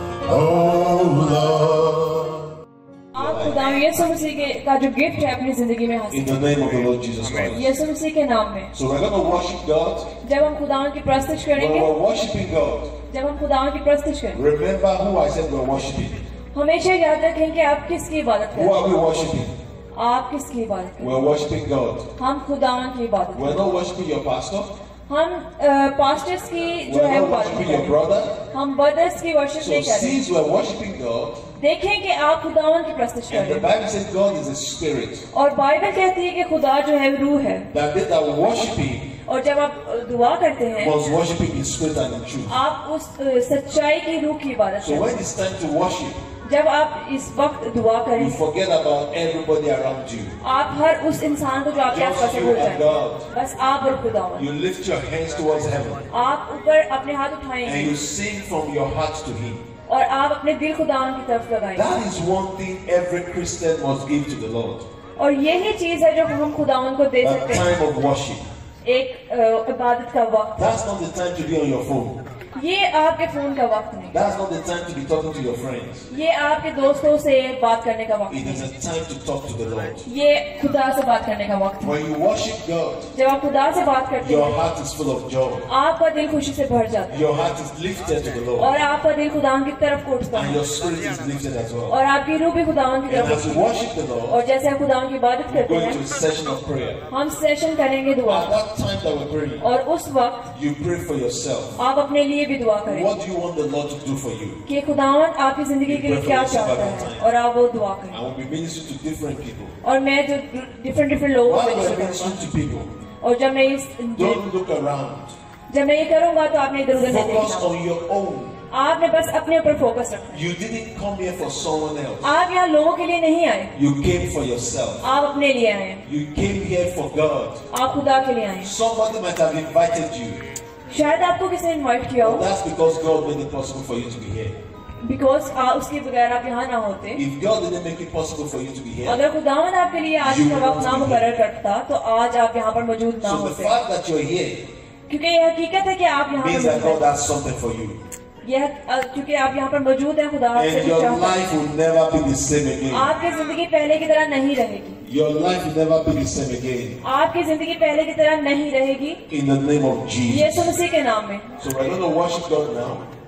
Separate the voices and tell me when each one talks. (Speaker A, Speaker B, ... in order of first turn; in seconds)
Speaker A: 0.3-2.5, 3.1-3.8, 6.1-7.7, 8.7-10.1, 11.5-12.9, 14.3-16.2, 18.5-19.6, 21.0-22.0, 23.3-24.7, 26.9-28.4, 29.6-31.4, 33.3-35.2, 37.7-39.1, 40.8-42.6, 44.8-46.2, 48.2-50.4, 51.9-53.3, 54.4-56.1, 57.6-59.6, 61.8-64.9, 67.2-68.5, 70.6-72.2, 74.1-76.1, 78.3-80.1, 81.8-83.1, 84.2-85.7, 87.1-88.7, 90.3-92.0, 93.1-94.4, 95.5-97.0, 98.3-99.7, 100.5-101.8, 102.8-104.6, 105.8-107.3, 108.1-109.8, 111.4-112.9, 114.2-115.3, 117.0-118.6, 120.3-122.3, 123.8-125.1, 126.0-127.6, 128.6-130.4, 132.2-134.6, 137.2-139.2, 140.2-141.3, 143.2-144.6, 146.3-148.0, 150.5-153.1, 155.0-157.0, 159.3-160.7, 161.6-163.1
Speaker B: 3.1-6.5, 7.5-8.7, 10.2-11.9, 13.1-14.4, 16.5-18.8, 19.9-21.2, 22.2-23.6, 25.1-28.0, 28.5-30.2, 31.6-33.7, 35.3-37.7, 39.3-40.9, 42.5-45.2, 46.5-48.4, 50.4-54.5, 56.1-58.0, 59.9-61.9, 65.2-67.7, 68.8-70.7, 72.5-74.2, 76.1-78.7, 80.1-81.9, 83.1-84.5, 85.7-87.2, 88.6-90.6, 91.9-93.7, 94.3-96.0, 97.1-98.5, 99.6-100.5, 101.8-103.1, 104.7-108.2, 109.8-112.5, 113.2-114.4, 115.7-117.7, 118.7-120.5, 122.2-123.7, 125.0-126.0, 127.7-128.7, 130.9-132.5, 135.0-137.2, 139.0-143.8, 145.1-147.0, 148.4-151.5, 152.9-155.0, 157.0-159.2, 160.3-161.5